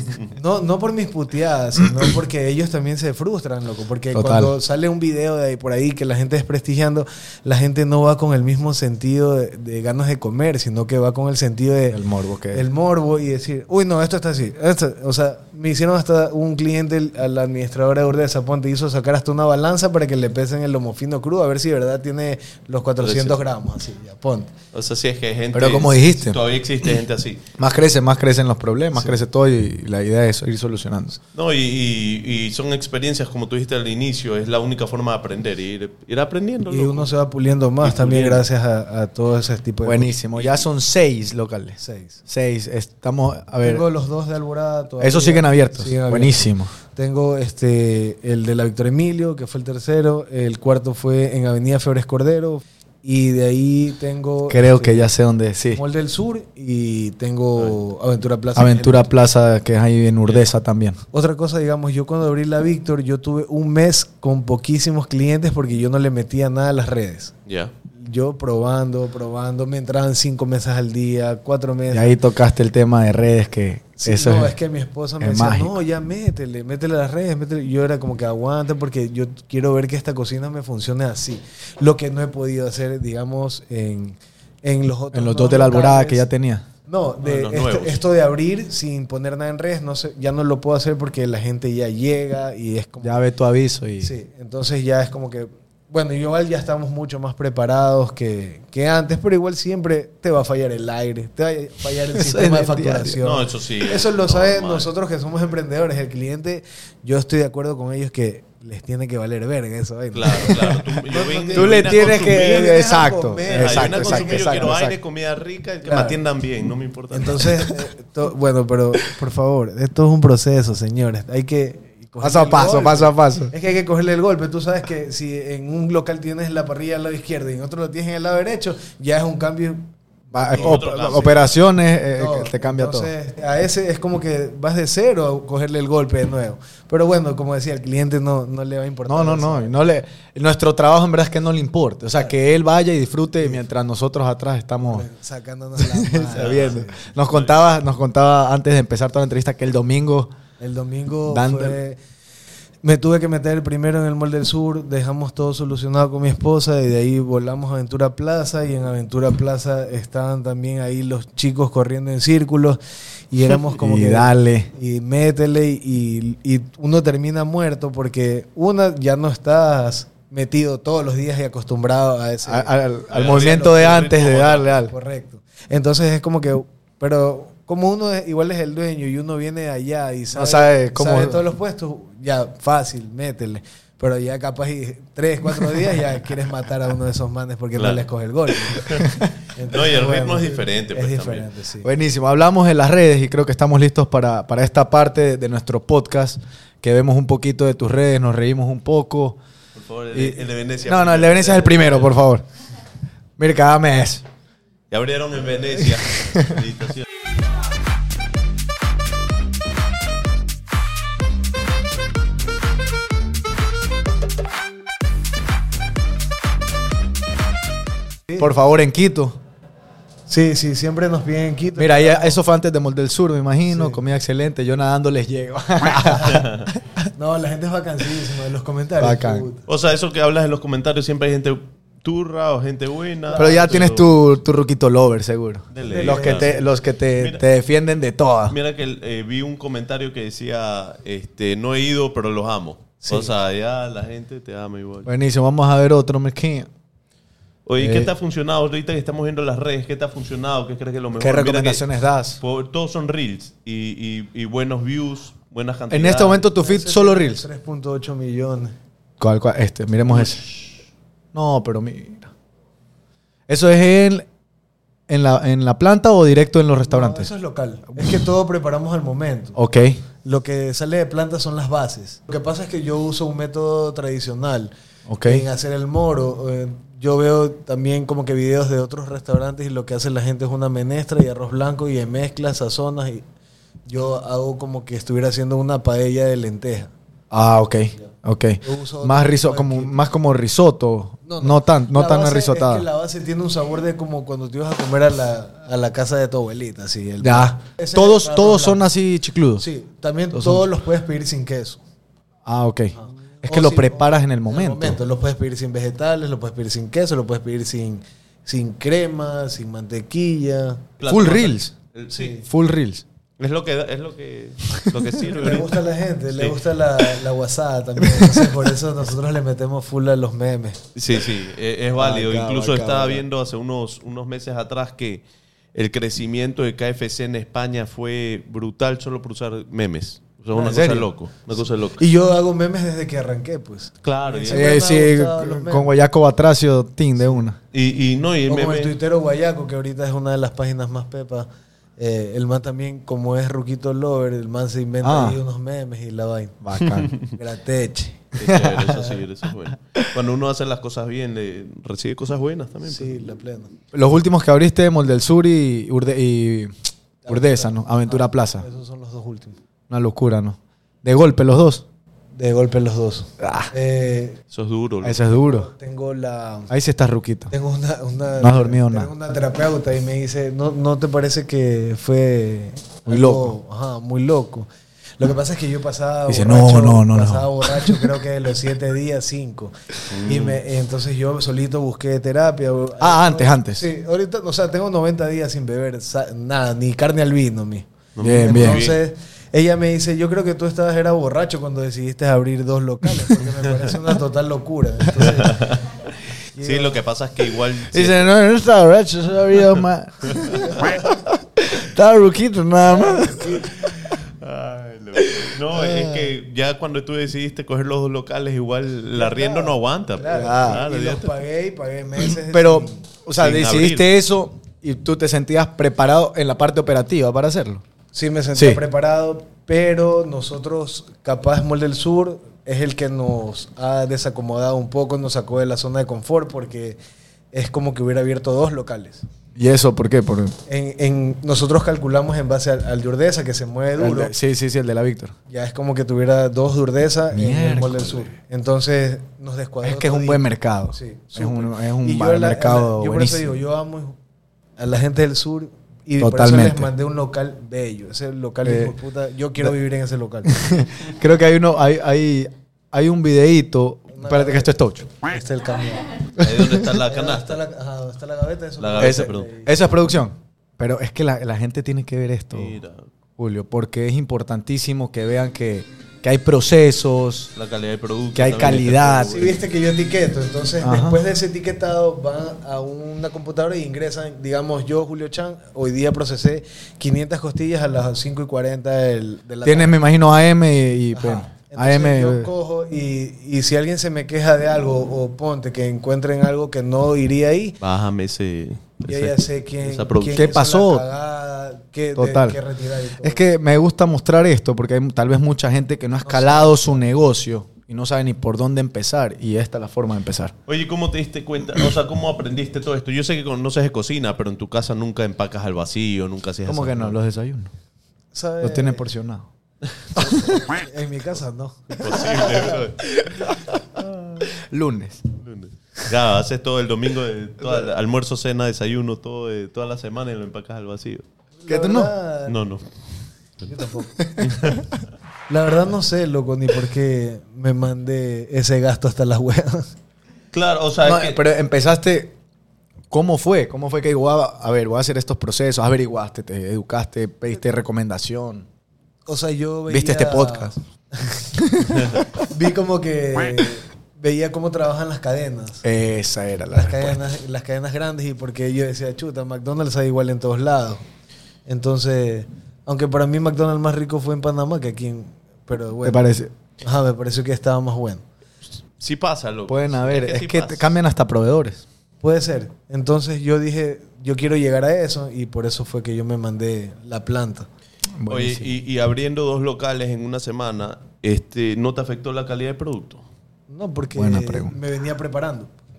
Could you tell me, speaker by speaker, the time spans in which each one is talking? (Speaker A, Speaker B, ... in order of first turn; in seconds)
Speaker A: 0.3-12.0, 12.5-24.5, 28.9-29.2, 36.7-40.1, 41.8-42.2, 43.6-55.1, 55.7-59.1, 61.1-67.3, 67.9-72.2, 74.0-86.3, 86.8-93.2, 94.0-114.9, 115.8-116.2, 117.1-130.8, 132.2-139.7, 144.8-147.0, 150.6-152.0, 152.8-162.8, 163.3-174.0, 174.9-191.9, 220.3-222.4, 223.7-224.0, 226.1-226.4, 227.1-229.7, 233.3-233.8, 235.8-236.7, 243.0-243.3, 256.5-258.7, 266.8-269.6, 270.2-274.7, 275.2-283.2, 283.9-286.9, 288.6-289.9, 291.2-298.8, 299.6-301.8, 302.9-310.9, 312.1-312.4, 315.4-320.8, 332.0-335.9, 337.2-337.4, 338.5-346.6, 347.2-348.3, 352.9-353.7, 357.2-359.6, 362.3-364.4, 365.3-366.7, 367.5-395.8, 396.6-397.0, 400.6-401.1, 402.8-403.9, 409.1-413.0, 418.1-427.0, 427.5-429.2, 430.7-434.3, 435.5-444.2, 444.8-450.8, 454.1-456.3, 456.9-459.7, 469.3-479.9, 481.1-487.8, 489.1-493.4, 496.2-497.0, 508.3-509.1, 510.1-512.8, 521.6-522.5, 523.6-524.2, 525.5-529.9, 539.2-545.8, 546.7-551.0, 551.6-556.2, 556.8-558.2, 562.2-567.7, 573.7-575.7
Speaker B: 4.1-4.5, 11.9-12.6, 25.5-26.4, 27.6-31.2, 39.8-43.8, 45.0-46.7, 54.5-55.8, 58.5-61.0, 71.9-74.5, 75.2-75.7, 85.1-86.7, 93.0-94.1, 102.1-103.2, 110.5-110.8, 111.5-114.9, 122.2-123.5, 130.3-133.1, 139.1-145.1, 145.8-150.3, 151.3-151.8, 163.7-164.7, 172.4-174.9, 180.3-181.4, 191.8-199.4, 200.1-202.4, 203.4-204.2, 205.8-206.6, 218.3-219.4, 221.8-227.0, 229.0-229.4, 233.3-238.6, 245.1-246.7, 247.8-248.1, 251.2-252.4, 255.9-257.4, 259.2-260.4, 261.3-262.3, 263.5-264.2, 265.1-267.3, 267.9-268.2, 269.6-270.0, 275.1-275.4, 287.3-292.9, 297.2-299.6, 300.3-300.6, 302.4-305.0, 311.1-311.7, 312.4-313.0, 318.0-318.7, 322.0-323.2, 330.6-331.1, 334.5-337.6, 345.0-345.4, 346.6-347.1, 348.4-349.1, 353.9-356.7, 357.3-358.6, 359.9-361.8, 363.4-363.7, 365.0-365.7, 366.7-367.5, 368.4-369.1, 373.1-373.5, 376.3-378.1, 383.0-383.9, 388.2-388.9, 397.9-404.1, 405.1-406.3, 410.3-410.8, 412.2-417.8, 418.5-418.8, 429.6-430.6, 434.0-435.3, 437.3-438.3, 439.8-443.5, 446.2-446.9, 448.6-448.9, 450.5-455.1, 456.4-456.7, 459.0-462.8, 463.4-467.5, 468.3-469.5, 470.8-471.2, 479.6-482.5, 490.3-491.1, 492.1-492.6, 493.2-500.5, 506.6-507.7, 508.6-509.5, 510.1-510.6, 513.2-513.8, 514.5-515.2, 521.7-522.1, 524.2-524.5, 531.0-532.4, 533.1-538.6, 539.9-540.7, 541.6-542.2, 545.8-547.2, 556.0-556.5, 559.7-561.8, 568.2-568.7, 574.1-574.8
Speaker C: 23.0-23.4, 24.7-27.4, 31.3-37.1, 37.8-38.4, 40.4-40.6, 67.5-67.7, 87.2-88.0, 103.2-104.9, 110.1-112.9, 113.5-117.7, 130.5-131.5, 146.3-147.6, 173.1-174.8, 187.8-188.1, 188.7-189.1, 189.7-191.5, 199.7-202.2, 204.9-207.1, 226.2-226.7, 229.7-234.1, 235.7-236.6, 237.2-237.4, 238.5-245.1, 247.7-251.9, 252.4-256.4, 311.0-312.4, 313.4-315.8, 316.3-316.6, 320.9-325.2, 325.7-332.0, 334.0-334.8, 337.7-338.9, 346.9-347.3, 348.3-353.2, 364.5-365.2, 380.1-380.6, 388.1-389.0, 395.2-395.9, 396.6-398.3, 399.7-400.6, 404.0-411.3, 413.4-414.0, 456.4-457.6, 458.8-459.5, 462.5-463.1, 467.6-469.6, 487.8-490.5, 500.7-507.2, 511.9-514.5, 515.4-521.2, 522.5-522.9, 524.4-524.8, 530.5-531.4, 559.0-560.9, 568.3-573.2